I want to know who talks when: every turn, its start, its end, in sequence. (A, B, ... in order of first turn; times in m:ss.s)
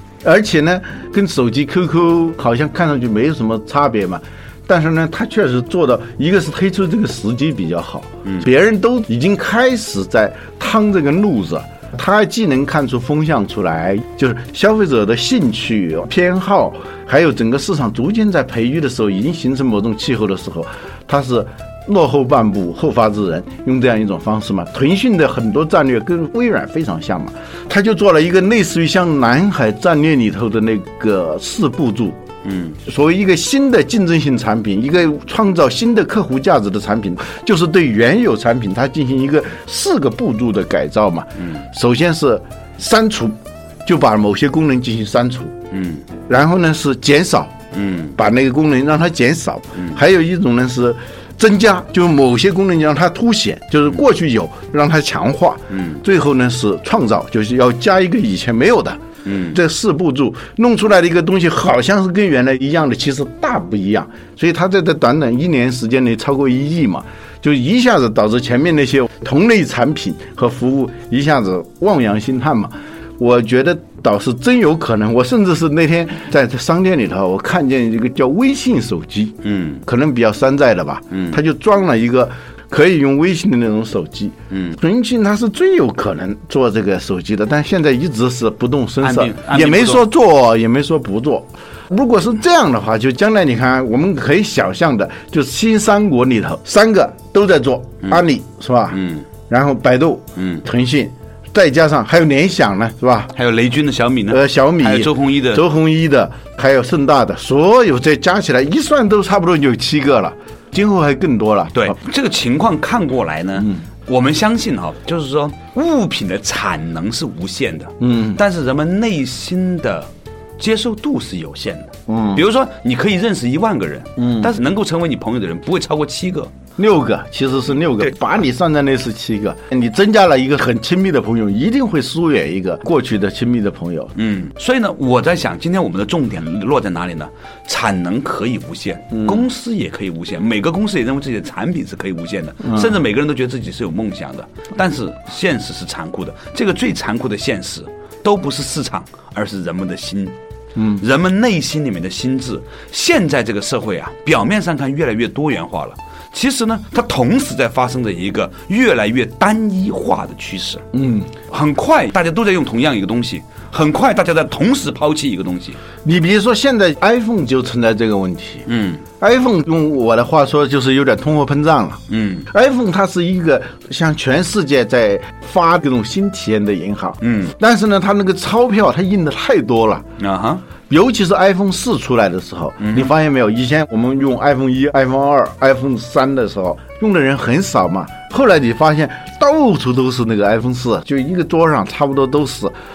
0:00.2-0:32.2 A
0:32.4-0:32.8 B
0:32.8-0:45.6 A
0:45.7-0:46.0 B
0:46.2-0:47.6 A
0:47.7-0:48.1 B
0:48.1-0:59.0 A
0:55.7-0:56.0 B
0:59.2-0:59.6 B
0:59.5-1:43.3 A
1:19.4-1:19.8 B
1:21.1-1:21.4 B
1:24.5-1:24.8 B
1:29.0-1:30.0 B
1:38.9-1:39.2 B
1:40.4-1:40.6 B
1:43.3-1:45.6 B
1:44.3-1:52.0 A
1:51.7-2:06.5 B
1:58.0-1:58.4 A
2:02.1-2:02.4 A
2:04.2-2:04.5 A
2:06.8-2:14.1 A
2:14.1-2:30.4 B
2:19.1-2:19.4 A
2:22.6-2:22.9 A
2:30.8-2:31.0 A
2:31.0-2:45.8 B
2:40.9-2:41.3 A
2:46.0-2:48.6 A
2:48.6-2:49.0 B
2:49.2-3:00.1 A
2:52.1-2:52.5 B
2:57.2-2:57.5 B
3:00.2-3:00.6 B
3:00.9-3:12.7 A
3:02.8-3:03.1 B